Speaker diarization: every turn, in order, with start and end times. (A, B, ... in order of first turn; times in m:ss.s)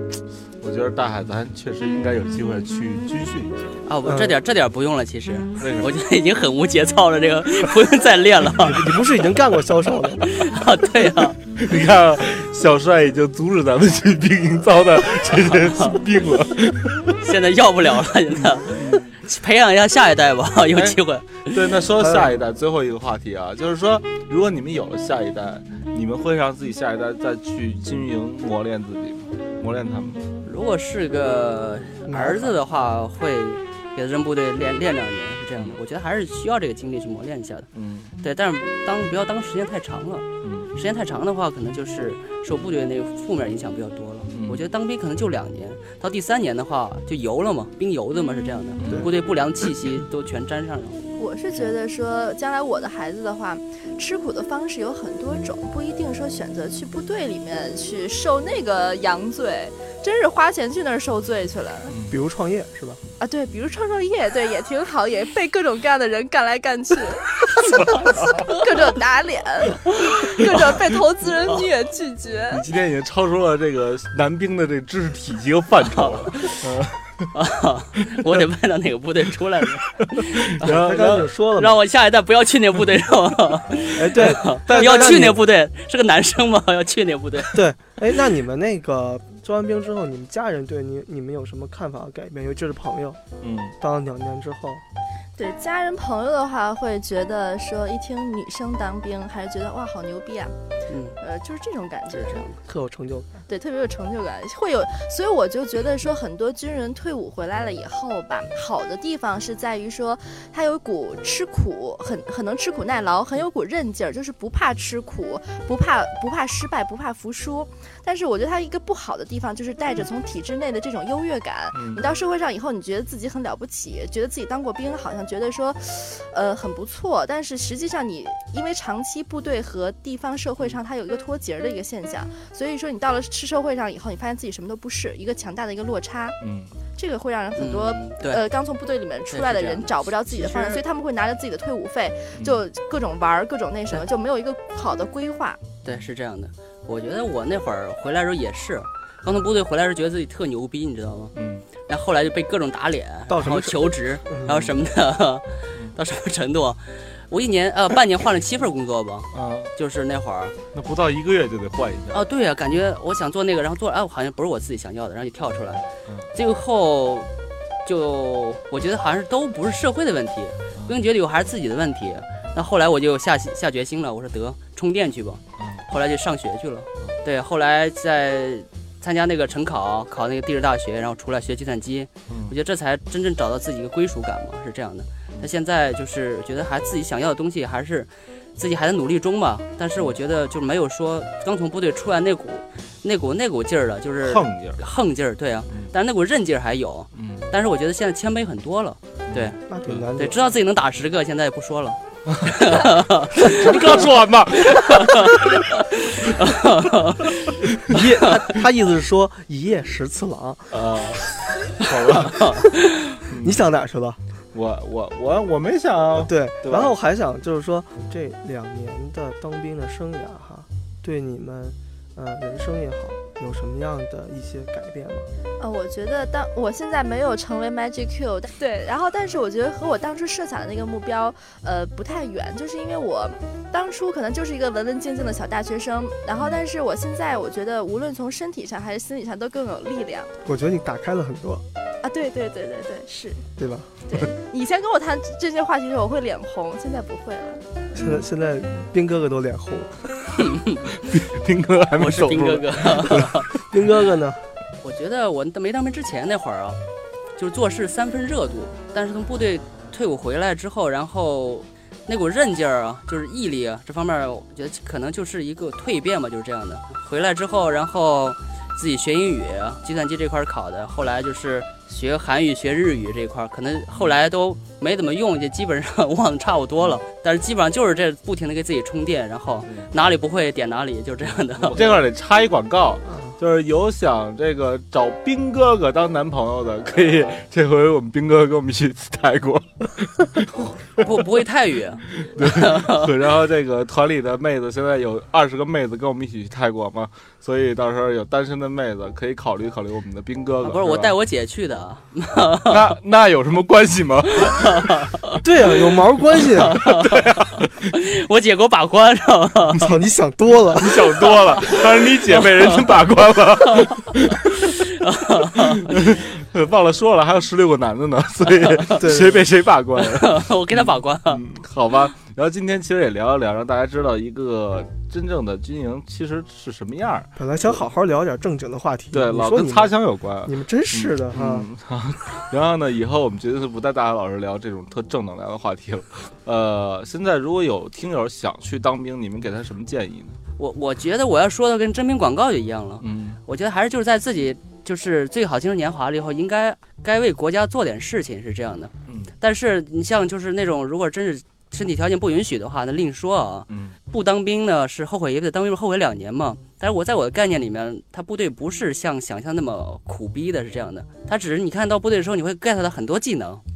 0:00.6-0:03.8 A
0:03.9-0:09.0 B
0:04.0-0:04.4 C
0:05.6-0:05.9 A
0:08.6-0:10.2 C
0:10.3-0:11.4 B
0:11.6-0:17.2 A
0:15.7-0:16.0 B
0:17.2-0:21.6 B
0:18.4-0:19.2 A
0:20.7-0:30.2 A
0:22.0-0:22.3 C
0:30.5-0:37.7 B
0:32.1-0:32.6 C
0:37.7-0:38.1 A
0:38.2-0:51.0 B
0:40.4-0:40.7 A
0:44.3-0:44.6 A
0:48.8-0:49.1 A
0:51.2-1:02.0 D
1:01.9-1:02.2 A
1:02.1-1:03.0 C
1:03.2-1:12.6 D
1:07.6-1:08.5 A
1:10.6-1:10.8 A
1:12.5-1:17.3 A
1:15.9-1:16.6 B
1:17.3-1:20.7 B
1:20.2-1:21.3 A
1:20.6-1:21.8 C
1:21.6-1:27.6 B
1:24.0-1:25.4 C
1:24.7-1:25.4 A
1:27.5-1:33.2 C
1:33.4-1:33.8 A
1:33.8-1:34.8 C
1:35.4-1:40.6 D
1:40.9-1:41.2 B
1:41.2-1:42.5 D
1:42.1-1:42.5 B
1:42.7-1:43.4 C
1:43.5-2:16.4 D
2:01.7-2:02.0 A
2:16.4-2:16.7 A
2:17.0-2:25.6 D
2:17.6-2:18.4 B
2:19.3-2:20.8 B
2:22.4-2:22.6 A
2:25.8-2:31.3 B
2:31.4-2:31.7 A
2:31.8-2:40.6 B
2:33.3-2:34.6 C
2:39.3-2:39.7 A
2:40.7-2:42.2 A
2:42.1-2:45.8 B
2:46.3-2:47.3 B
2:47.8-3:19.6 B
2:55.6-2:55.8 A
3:02.3-3:02.6 A
3:14.2-3:14.8 A
3:17.2-3:17.5 A
3:19.3-3:20.1 A
3:19.7-3:20.6 C
3:20.2-3:24.0 B
3:22.3-3:25.6 A
3:24.7-3:27.6 B
3:27.8-3:30.8 C
3:30.7-3:32.5 A
3:32.2-3:33.2 B
3:33.3-3:33.6 A
3:33.4-3:34.2 C
3:34.5-3:36.9 A
3:36.2-3:45.3 C
3:45.6-4:00.3 D
3:56.4-3:56.6 A
4:00.4-4:01.6 C
4:02.0-4:03.4 D
4:03.6-4:04.0 C
4:04.1-4:07.7 D
4:07.9-4:10.0 C
4:08.0-4:08.3 A
4:10.4-4:11.0 B
4:11.0-4:13.4 A
4:12.0-4:13.5 B
4:13.5-4:14.4 C
4:14.8-4:16.8 B
4:17.4-4:41.9 B
4:41.6-4:51.1 A
4:51.0-4:53.1 B
4:52.2-5:01.2 A
5:00.6-5:02.9 B
5:02.7-5:04.8 A
5:04.4-5:05.4 B
5:05.4-5:06.8 C
5:06.6-5:09.9 B
5:06.8-5:07.9 A
5:09.8-5:11.3 C
5:10.7-5:14.8 A
5:11.3-5:12.8 B
5:13.7-5:16.1 B
5:15.4-5:27.8 A
5:18.5-5:19.0 B
5:18.9-5:19.5 C
5:20.0-5:21.4 B
5:27.4-5:31.7 C
5:29.1-5:40.4 A
5:40.6-6:03.6 B
5:43.0-5:43.4 A
5:49.1-5:49.3 A
5:53.7-5:54.0 A